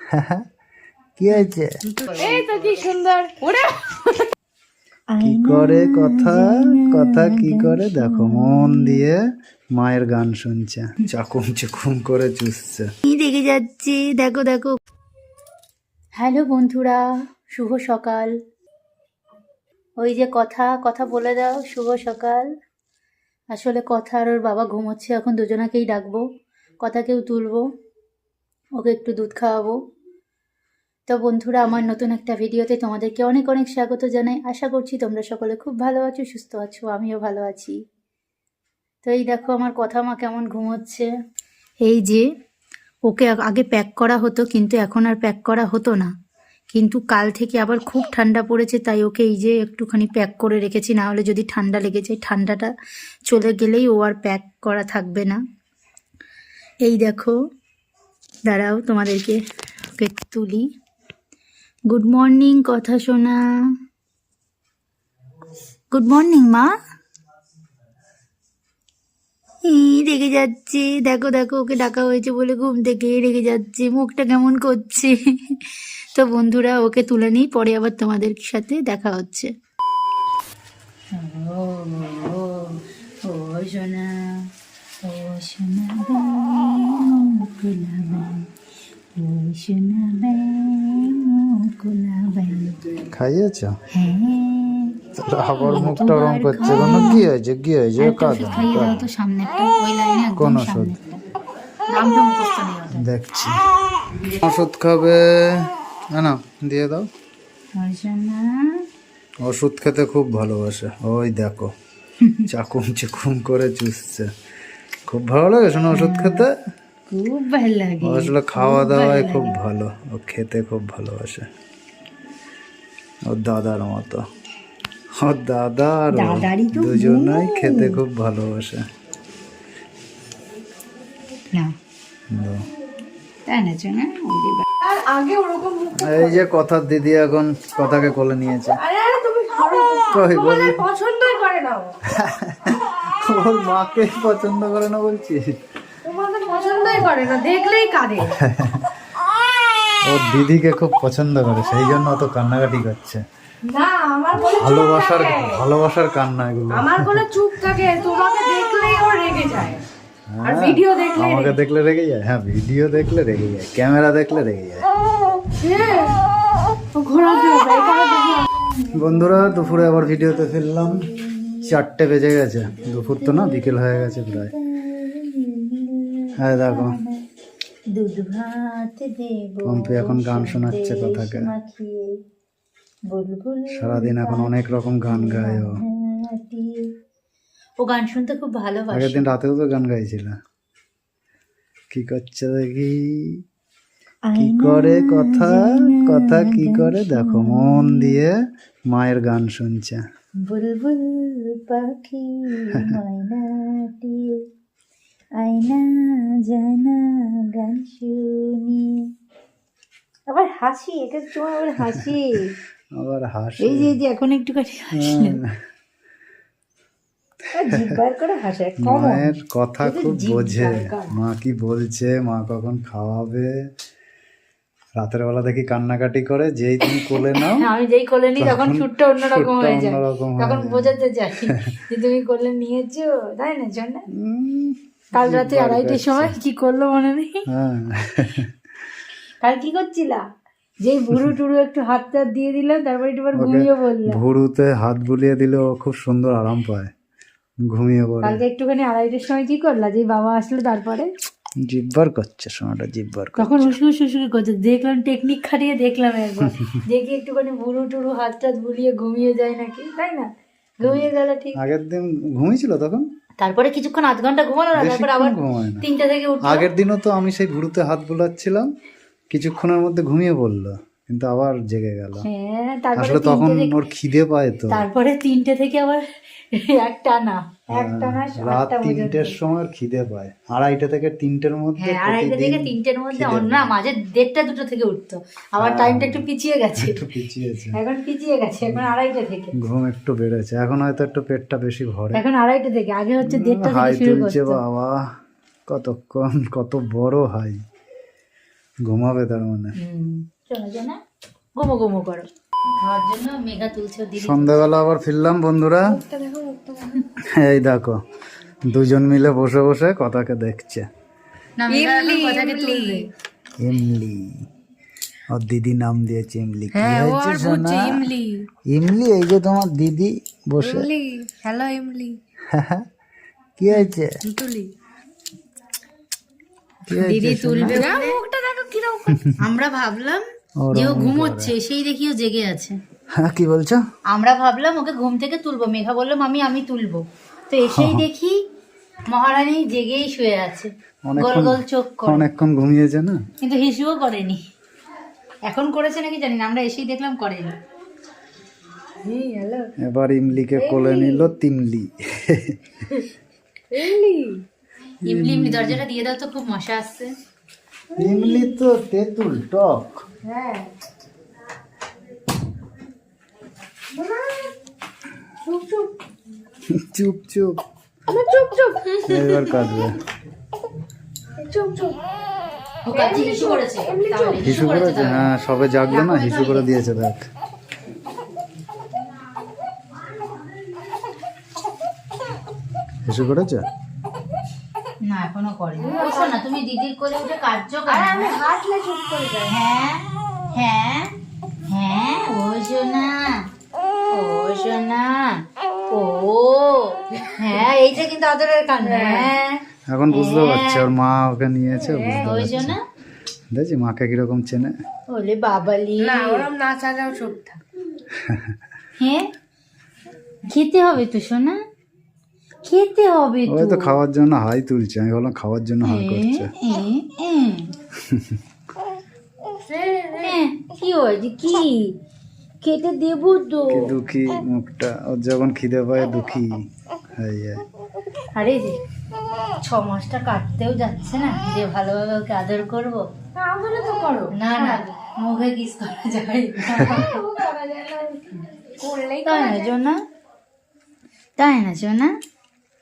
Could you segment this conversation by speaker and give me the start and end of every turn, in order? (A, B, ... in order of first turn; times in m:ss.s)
0:00.1-0:00.4 A
0:01.2-0:01.7 A
0:02.1-0:04.3 B
0:05.1-0:09.0 C
0:05.2-0:09.2 A
0:09.7-0:12.9 A
0:13.1-0:14.7 C
0:16.2-0:17.0 C
0:17.5-0:18.3 C
0:20.0-0:22.5 C
0:23.5-0:26.2 C
0:26.8-0:27.6 C
0:28.8-0:29.8 C
0:31.1-0:37.8 C
0:39.0-0:41.1 C
0:41.8-0:42.2 C
0:43.1-0:46.1 C
0:46.7-0:52.7 C
0:53.3-0:55.4 C
0:56.8-0:57.4 C
0:58.4-0:59.4 C
1:00.0-1:00.7 C
1:01.9-1:03.4 C
1:05.9-1:06.7 C
1:09.7-1:15.6 C
1:16.2-1:19.5 C
1:21.1-1:24.4 C
1:25.0-1:28.4 C
1:29.2-1:32.8 C
1:33.1-1:33.8 A
1:33.9-1:35.0 C
1:35.2-1:39.0 A
1:35.6-1:37.3 C
1:38.0-1:41.2 C
1:40.4-1:40.9 A
1:41.9-1:43.1 C
1:42.9-1:43.6 A
1:44.2-1:47.1 A
1:47.7-1:48.8 C
1:49.4-1:51.7 A
1:52.5-1:54.3 A
1:55.1-1:56.5 A
1:55.9-1:56.4 C
1:57.1-1:59.5 C
1:58.0-2:01.4 A
2:03.2-2:04.2 A
2:05.2-2:08.8 A
2:06.1-2:08.0 C
2:12.3-2:12.6 A
2:13.5-2:14.6 C
2:14.8-2:16.4 B
2:16.0-2:18.8 A
2:18.7-2:21.9 B
2:20.1-2:20.8 A
2:22.2-2:25.4 A
2:26.0-2:28.3 B
2:28.4-2:28.9 A
2:30.0-2:33.2 A
2:33.7-2:35.6 B
2:34.4-2:37.7 A
2:36.7-2:39.8 B
2:40.3-2:44.9 A
2:40.4-2:41.5 B
2:45.6-2:46.2 B
2:46.9-2:48.5 B
2:48.8-2:51.7 C
2:48.9-2:51.0 A
2:51.7-2:54.5 A
2:52.7-2:57.2 C
2:56.4-2:57.0 A
2:57.9-3:02.1 C
2:59.6-3:01.5 A
3:03.1-3:04.5 C
3:03.7-3:05.8 A
3:05.1-3:06.9 C
3:07.8-3:09.3 C
3:08.9-3:10.4 A
3:11.9-3:13.4 A
3:14.3-3:18.2 C
3:14.4-3:18.3 A
3:18.9-3:20.0 A
3:20.4-3:24.4 C
3:25.4-3:29.1 C
3:30.3-3:32.5 C
3:32.9-3:33.9 A
3:33.6-3:35.4 C
3:35.0-3:35.5 A
3:37.5-3:41.2 C
3:38.8-3:43.5 A
3:45.0-3:47.6 A
3:46.9-3:54.0 C
3:48.4-3:50.9 A
3:54.1-3:56.4 A
3:55.1-3:57.4 C
3:57.5-3:58.5 A
3:59.4-4:00.2 C
4:00.8-4:04.2 C
4:03.3-4:06.9 A
4:07.7-4:08.4 A
4:08.2-4:11.1 C
4:11.6-4:13.8 A
4:13.4-4:19.9 C
4:20.0-4:20.3 B
4:20.8-4:21.6 C
4:20.8-4:23.0 A
4:23.4-4:26.7 C
4:24.7-4:25.8 A
4:26.4-4:28.7 A
4:29.3-4:32.2 A
4:32.2-4:33.7 C
4:33.0-4:34.8 A
4:34.7-4:39.4 C
4:37.7-4:43.7 A
4:41.8-4:47.0 C
4:45.6-4:47.8 A
4:47.7-4:49.5 C
4:49.6-4:52.2 A
4:52.1-4:54.6 C
4:53.2-4:55.0 A
4:55.7-4:57.6 A
4:58.8-4:59.7 A
4:59.8-5:01.0 C
5:01.6-5:02.3 C
5:02.8-5:04.7 C
5:04.2-5:06.0 A
5:05.9-5:07.0 B
5:07.2-5:08.0 A
5:08.7-5:10.8 A
5:11.6-5:13.1 C
5:11.7-5:13.1 B
5:13.6-5:14.4 A
5:15.3-5:18.0 A
5:16.7-5:18.4 B
5:18.7-5:20.9 A
5:20.6-5:22.2 B
5:22.5-5:22.8 A
5:23.6-5:24.2 A
5:24.2-5:24.7 B
5:26.9-5:27.8 A
5:26.9-5:28.2 C
5:27.7-5:29.2 B
5:29.4-5:32.8 C
5:30.6-5:31.5 A
5:33.2-5:33.8 A
5:34.1-5:38.4 C
5:37.7-5:38.0 A
5:39.1-5:42.2 C
5:41.0-5:43.2 A
5:43.4-5:44.4 C
5:45.5-5:47.5 C
5:49.0-5:49.7 B
5:49.8-5:52.6 A
5:50.6-5:51.3 B
5:53.7-5:54.4 B
5:55.0-5:55.8 A
5:55.0-5:57.1 C
5:57.9-5:58.6 B
5:58.0-6:00.0 A
6:00.2-6:00.7 B
6:03.9-6:04.5 B
6:05.4-6:05.9 B
6:06.7-6:07.6 A
6:08.1-6:09.0 B
6:09.1-6:10.0 A
6:11.4-6:12.0 B
6:12.8-6:15.3 C
6:12.9-6:14.5 B
6:14.4-6:17.3 A
6:15.9-6:16.7 C
6:23.1-6:23.6 A
6:25.0-6:28.4 C
6:25.8-6:26.4 B
6:27.9-6:29.6 B
6:29.5-6:31.1 C
6:31.7-6:33.4 C
6:34.1-6:40.9 C
6:38.8-6:39.3 B
6:39.9-6:42.8 A
6:41.8-6:42.3 B
6:42.2-6:42.8 C
6:43.5-6:44.7 A
6:45.1-6:46.5 C
6:46.0-6:47.6 B
6:48.2-6:48.5 A
6:49.0-6:49.3 C
6:50.5-6:51.6 C
6:52.6-6:54.0 C
6:53.5-6:56.5 A
6:55.9-6:57.7 C
6:58.1-6:58.4 A
6:59.7-7:00.4 B
7:00.2-7:01.9 C
7:02.6-7:03.9 C
7:03.7-7:07.6 A
7:08.3-7:08.8 C
7:09.6-7:13.0 C
7:13.3-7:14.9 B
7:14.4-7:17.2 C
7:16.8-7:19.7 B
7:19.2-7:20.0 C
7:21.4-7:22.1 C